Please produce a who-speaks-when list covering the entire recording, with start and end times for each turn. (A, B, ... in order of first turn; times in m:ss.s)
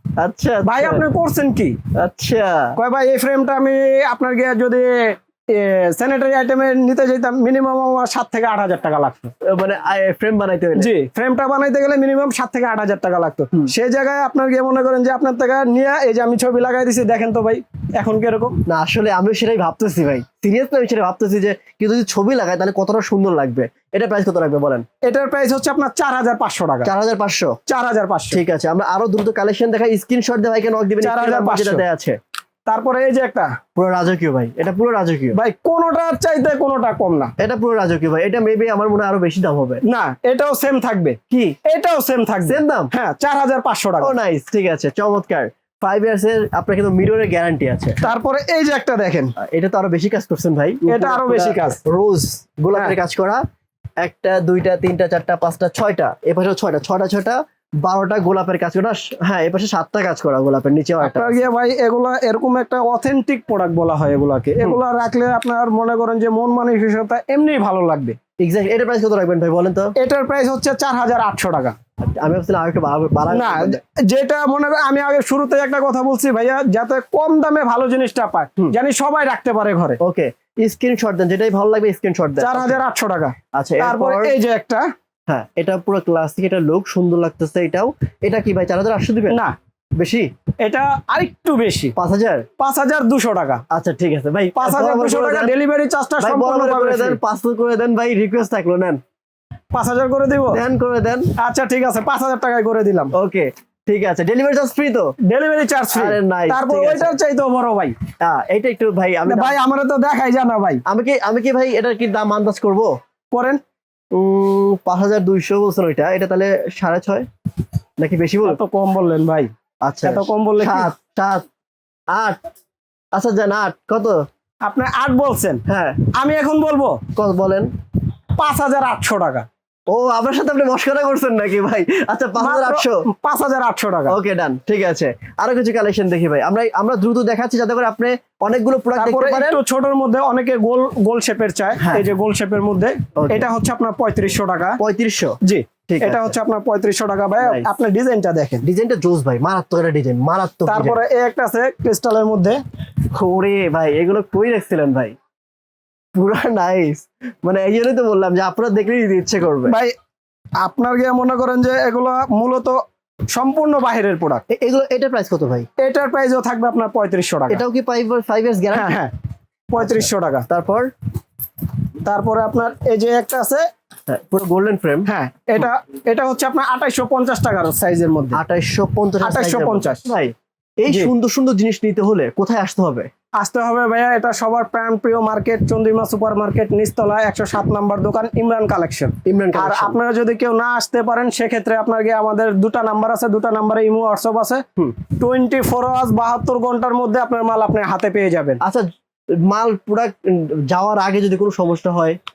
0:00.2-0:01.1 A
0:00.6-0:01.8 B
0:01.9-0:02.8 A
0:02.8-0:09.3 B
0:09.4-0:10.9 A
0:10.8-0:18.6 B
0:18.7-0:24.8 A
0:25.1-0:26.9 B
0:26.8-0:27.6 A
0:27.7-0:28.4 B
0:28.3-0:32.2 A
0:31.0-0:31.8 B
0:32.7-0:33.5 B
0:33.8-0:35.4 A
0:35.3-0:37.3 B
0:37.4-0:39.8 A
0:39.9-0:44.2 B
0:41.3-0:41.6 A
0:42.5-0:42.9 A
0:44.0-0:48.0 A
0:48.0-0:49.3 B
0:49.4-0:53.4 A
0:50.9-0:51.8 B
0:54.0-1:01.4 A
1:01.0-1:08.2 B
1:08.4-1:09.9 A
1:10.0-1:11.7 B
1:12.0-1:13.8 A
1:13.3-1:20.0 B
1:20.0-1:22.8 A
1:22.4-1:24.9 B
1:23.5-1:24.4 A
1:25.3-1:29.4 A
1:30.0-1:30.3 A
1:30.6-1:31.9 B
1:32.0-1:32.5 A
1:32.6-1:33.6 B
1:33.7-1:35.6 A
1:34.6-1:37.2 B
1:36.2-1:39.0 A
1:39.7-1:40.6 B
1:40.5-1:41.3 A
1:41.4-1:43.1 B
1:43.2-1:45.1 A
1:45.3-1:48.0 B
1:45.9-1:47.2 A
1:48.2-1:49.6 A
1:49.3-1:50.8 B
1:50.9-1:52.9 A
1:53.3-1:53.6 B
1:54.1-1:57.3 A
1:58.0-1:58.6 A
1:58.4-1:59.5 B
1:59.8-2:01.4 A
2:00.0-2:00.9 B
2:02.1-2:02.4 A
2:03.1-2:04.2 A
2:04.6-2:05.6 B
2:05.7-2:06.0 A
2:06.1-2:07.0 B
2:07.2-2:07.7 A
2:08.4-2:09.5 B
2:09.9-2:13.0 A
2:12.4-2:14.2 B
2:14.1-2:19.6 A
2:19.0-2:24.8 B
2:21.8-2:22.1 A
2:23.2-2:23.5 A
2:24.8-2:25.4 A
2:25.4-2:28.6 B
2:25.9-2:26.4 A
2:27.4-2:27.7 A
2:28.6-2:31.0 A
2:30.7-2:32.6 B
2:33.1-2:35.2 A
2:36.2-2:39.8 A
2:40.6-2:42.8 B
2:43.3-2:44.4 B
2:44.5-2:45.7 A
2:45.8-2:47.6 B
2:47.5-2:49.0 A
2:48.7-2:49.1 B
2:49.7-2:50.5 B
2:49.8-2:50.9 A
2:52.0-2:53.6 B
2:54.1-2:55.1 A
2:55.1-2:58.4 B
2:58.3-3:03.1 A
2:59.2-3:00.0 B
3:03.4-3:14.6 B
3:09.2-3:10.0 A
3:15.2-3:18.6 B
3:19.4-3:22.2 A